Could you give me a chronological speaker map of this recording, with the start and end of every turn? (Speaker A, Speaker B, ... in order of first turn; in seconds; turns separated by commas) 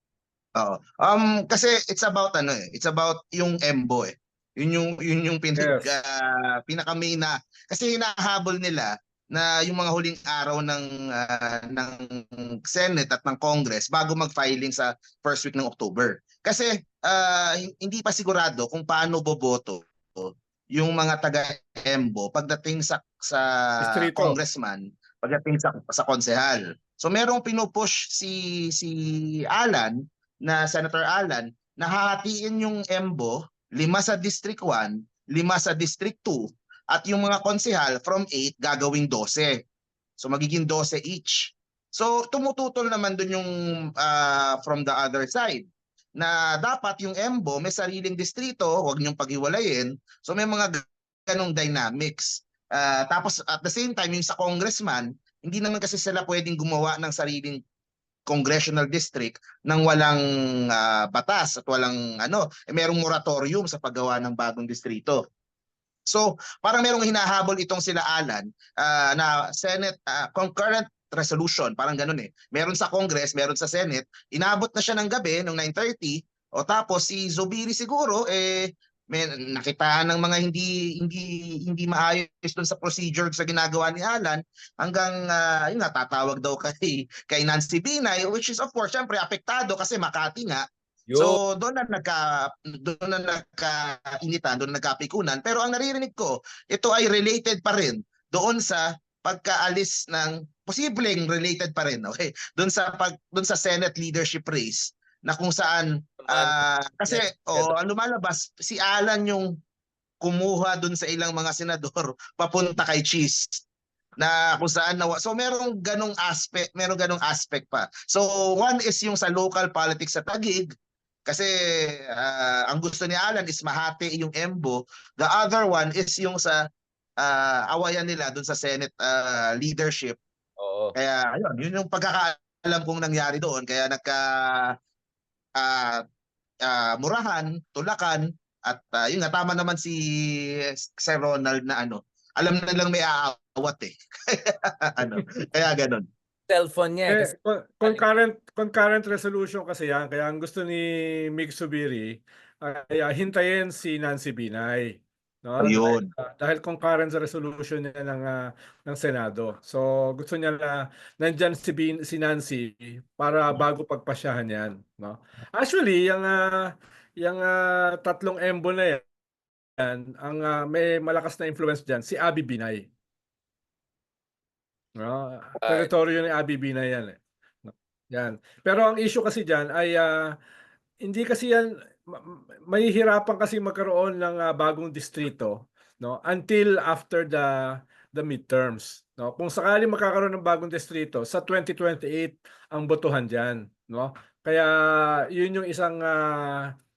Speaker A: 0.6-39.6, Speaker B: 5.6-5.9, Speaker B: 23.8-24.4, Speaker A: 40.2-57.6, Speaker A: 58.3-65.2, Speaker A: 66.1-90.6, Speaker C: 91.1-91.4, Speaker A: 91.1-109.5, Speaker C: 106.2-107.7, Speaker A: 110.2-113.6, Speaker A: 114.2-120.7, Speaker A: 121.3-126.6, Speaker A: 127.2-130.2, Speaker C: 130.6-130.9, Speaker A: 130.9-134.7, Speaker A: 135.6-136.0, Speaker A: 136.7-140.0, Speaker A: 140.7-146.0, Speaker C: 146.5-147.3, Speaker B: 147.1-166.5, Speaker A: 155.6-156.1, Speaker B: 167.2-169.0, Speaker B: 169.8-172.8, Speaker B: 175.0-180.1, Speaker C: 175.6-175.9, Speaker B: 181.0-187.5, Speaker B: 188.1-196.6